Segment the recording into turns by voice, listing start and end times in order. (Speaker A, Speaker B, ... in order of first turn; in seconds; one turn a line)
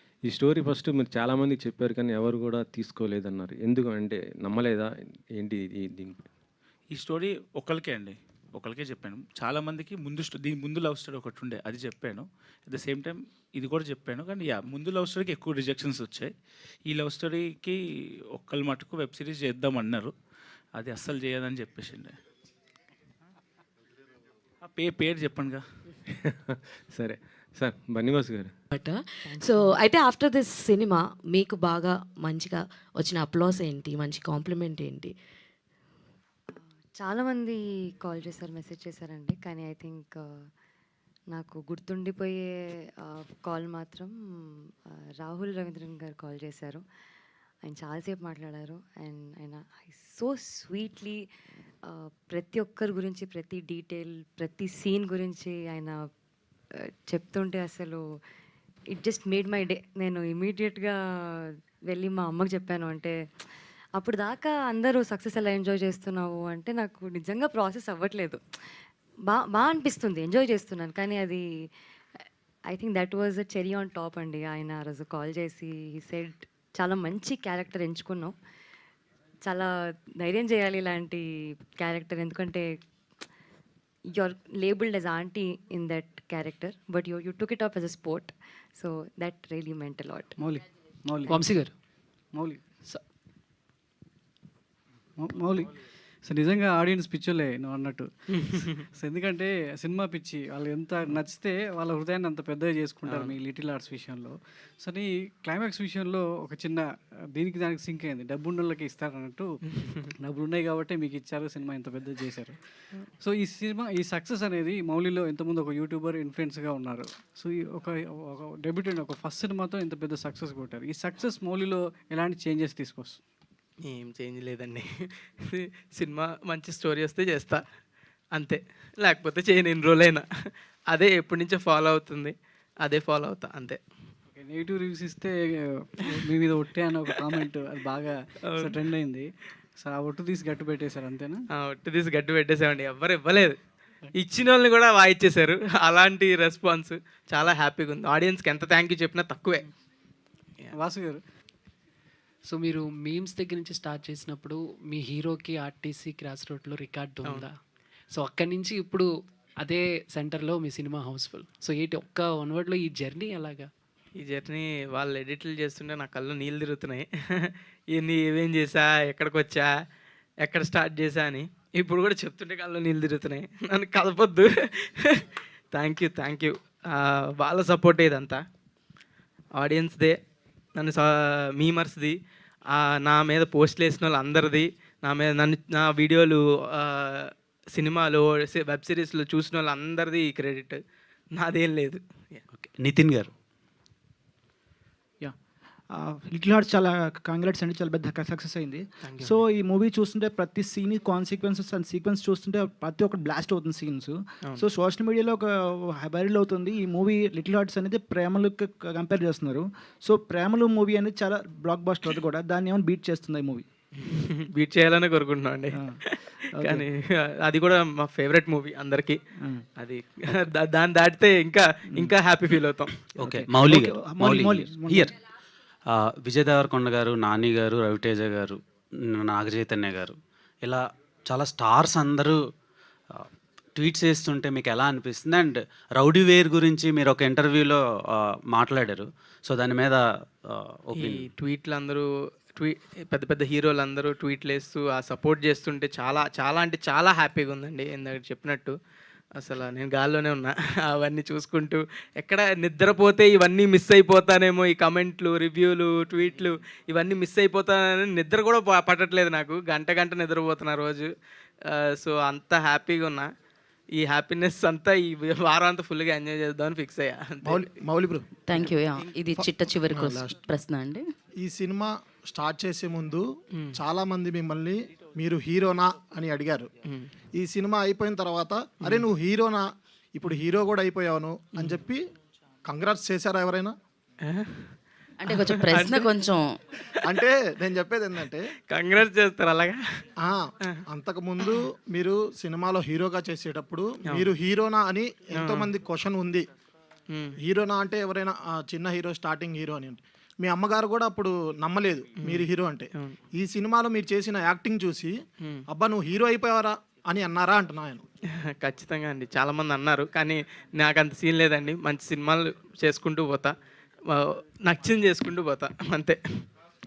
Speaker A: 0.2-6.3
Speaker B: 6.9-16.3
Speaker B: 16.9-17.8
Speaker B: 18.3-20.1
Speaker B: 20.7-22.1
Speaker B: 24.6-25.6
Speaker A: 26.3-28.5
Speaker C: 28.7-35.1
Speaker D: 36.5-40.3
Speaker D: 41.3-44.1
Speaker D: 45.2-46.8
Speaker D: 47.6-51.3
Speaker D: 51.8-56.0
Speaker D: 57.1-58.0
Speaker D: 58.9-63.1
Speaker D: 64.0-68.4
Speaker D: 69.3-71.4
Speaker D: 72.7-78.3
Speaker D: 79.4-81.2
Speaker D: 81.8-82.7
Speaker D: 84.2-90.3
Speaker E: 90.4-91.4
Speaker F: 91.3-91.7
Speaker E: 92.3-92.6
Speaker E: 95.2-95.7
Speaker E: 96.2-98.1
Speaker G: 98.5-98.8
Speaker E: 99.0-109.5
Speaker G: 103.0-103.4
Speaker E: 110.2-112.5
Speaker E: 113.2-123.2
Speaker G: 123.8-127.6
Speaker G: 128.3-133.8
Speaker E: 134.3-139.3
Speaker G: 136.1-136.4
Speaker G: 137.1-137.3
Speaker G: 138.4-138.9
Speaker E: 139.8-141.4
Speaker G: 141.5-143.6
Speaker G: 144.2-149.7
Speaker E: 150.8-151.2
Speaker F: 152.5-157.5
Speaker F: 158.1-159.1
Speaker F: 159.6-163.7
Speaker G: 164.2-169.7
Speaker G: 170.4-178.4
Speaker G: 179.6-180.2
Speaker G: 180.8-182.1
Speaker G: 182.7-190.8
Speaker G: 191.3-192.4
Speaker H: 192.5-193.3
Speaker I: 195.9-213.6
Speaker G: 199.0-199.4
Speaker G: 214.0-219.2
Speaker I: 216.6-216.8
Speaker G: 219.8-223.0
Speaker I: 223.2-225.1
Speaker H: 223.2-225.1
Speaker H: 225.9-232.4
Speaker H: 233.2-241.3
Speaker G: 240.9-248.7
Speaker G: 249.4-261.1
Speaker G: 261.7-263.3
Speaker G: 263.9-267.9
Speaker J: 267.4-268.2
Speaker G: 268.5-269.6
Speaker J: 269.3-270.4
Speaker K: 269.4-271.0
Speaker J: 271.4-273.2
Speaker G: 273.5-273.8
Speaker J: 273.8-276.7
Speaker G: 276.8-277.1
Speaker J: 277.3-282.0
Speaker G: 278.8-279.1
Speaker G: 281.5-281.8
Speaker J: 282.6-283.7
Speaker G: 284.3-287.3
Speaker K: 285.7-286.4
Speaker J: 287.1-288.4
Speaker G: 288.2-289.8
Speaker J: 290.2-296.4
Speaker G: 294.1-294.3
Speaker G: 295.3-295.7
Speaker G: 297.1-297.4
Speaker J: 297.4-305.1
Speaker G: 302.1-303.2
Speaker J: 305.7-308.0
Speaker G: 308.4-313.5
Speaker G: 314.1-316.5